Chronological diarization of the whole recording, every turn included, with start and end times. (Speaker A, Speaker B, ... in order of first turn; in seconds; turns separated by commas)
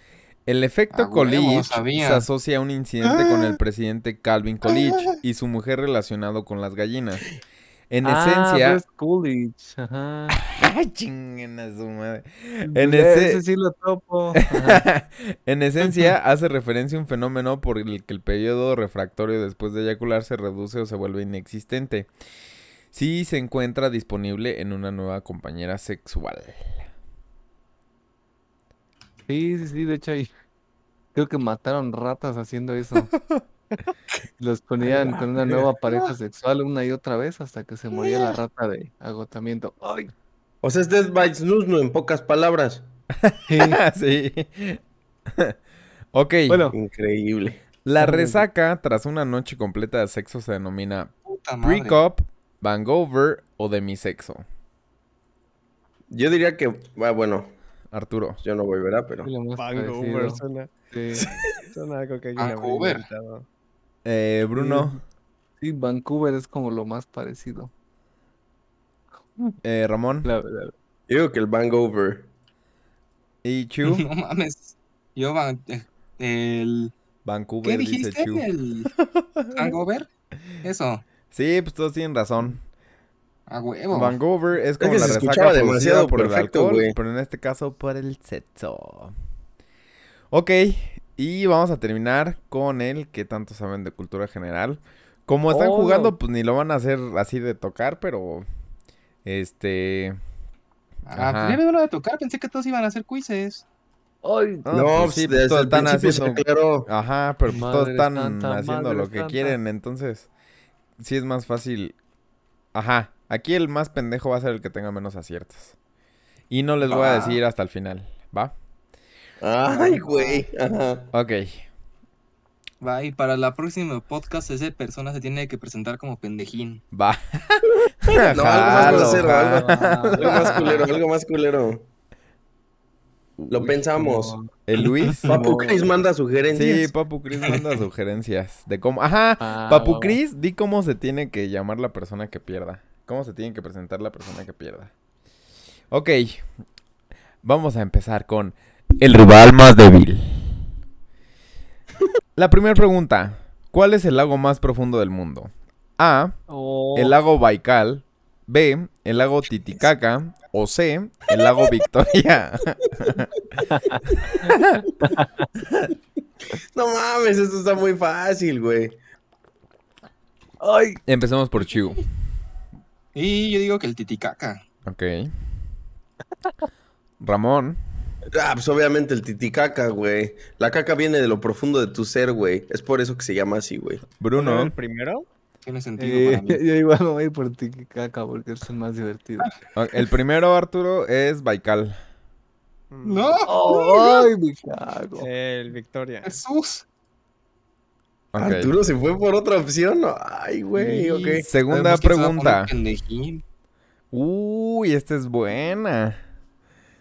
Speaker A: 0.5-7.3, Speaker B: 0.9-2.3, Speaker A: 7.9-8.8, Speaker C: 8.0-10.4, Speaker A: 10.4-13.4, Speaker C: 12.7-14.9, Speaker A: 14.5-22.1, Speaker A: 22.9-26.7, Speaker C: 29.3-30.3, Speaker C: 31.1-33.1, Speaker C: 34.4-40.1, Speaker D: 34.8-36.1, Speaker D: 38.0-38.3, Speaker D: 40.6-42.9, Speaker A: 43.2-45.6, Speaker C: 43.5-43.8, Speaker A: 46.1-46.7, Speaker C: 46.5-46.8, Speaker D: 46.7-47.6, Speaker A: 47.9-54.5, Speaker C: 48.0-48.4, Speaker B: 51.3-52.0, Speaker D: 56.1-57.5, Speaker A: 57.9-58.4, Speaker D: 58.4-59.3, Speaker C: 59.2-61.3, Speaker E: 59.6-60.7, Speaker D: 61.1-61.6, Speaker E: 61.7-63.5, Speaker B: 62.4-63.0, Speaker A: 64.0-65.0, Speaker C: 64.6-65.0, Speaker C: 65.6-67.7, Speaker A: 69.6-70.3, Speaker C: 70.2-70.7, Speaker D: 71.1-72.3, Speaker A: 73.4-74.0, Speaker B: 73.8-76.9, Speaker A: 77.2-78.5, Speaker B: 77.6-78.9, Speaker A: 79.2-79.8, Speaker B: 79.5-80.1, Speaker B: 80.6-81.0, Speaker A: 81.3-82.6, Speaker B: 83.5-84.2, Speaker A: 83.9-89.1, Speaker D: 84.8-87.0, Speaker A: 90.3-98.5, Speaker C: 95.5-96.1, Speaker A: 99.2-100.2, Speaker B: 101.1-103.6, Speaker A: 101.1-101.6, Speaker C: 104.2-104.7, Speaker A: 104.7-110.3, Speaker D: 104.7-106.9, Speaker C: 107.5-109.6, Speaker A: 111.0-112.0, Speaker A: 112.8-115.8, Speaker A: 116.5-118.5, Speaker B: 116.8-117.4, Speaker D: 119.4-121.1, Speaker A: 121.1-121.7, Speaker B: 122.8-126.8, Speaker A: 126.9-130.8, Speaker D: 127.8-131.9, Speaker C: 128.5-130.9, Speaker A: 133.4-133.7, Speaker D: 133.5-134.3, Speaker C: 133.7-134.5, Speaker A: 134.7-135.4, Speaker C: 135.2-135.9, Speaker D: 135.2-136.9, Speaker A: 136.5-144.9, Speaker C: 139.4-140.2, Speaker A: 145.9-146.4, Speaker A: 147.4-150.7, Speaker A: 152.4-156.4, Speaker C: 156.5-157.2, Speaker A: 156.9-163.3, Speaker C: 163.7-165.5, Speaker A: 164.4-164.8, Speaker D: 166.6-169.0, Speaker C: 170.6-171.0, Speaker A: 171.1-172.1, Speaker B: 173.2-174.6, Speaker A: 174.8-175.3, Speaker A: 177.2-177.8, Speaker D: 178.3-184.1, Speaker A: 184.2-184.7, Speaker E: 184.4-185.3, Speaker B: 185.7-186.6, Speaker C: 186.0-189.6, Speaker A: 189.8-192.0, Speaker E: 192.9-193.7, Speaker B: 193.0-193.9, Speaker C: 193.5-195.3, Speaker E: 195.2-196.4, Speaker B: 196.2-196.8, Speaker A: 198.3-198.7, Speaker D: 198.4-201.5, Speaker B: 200.8-203.4, Speaker A: 201.4-202.7, Speaker A: 204.1-206.2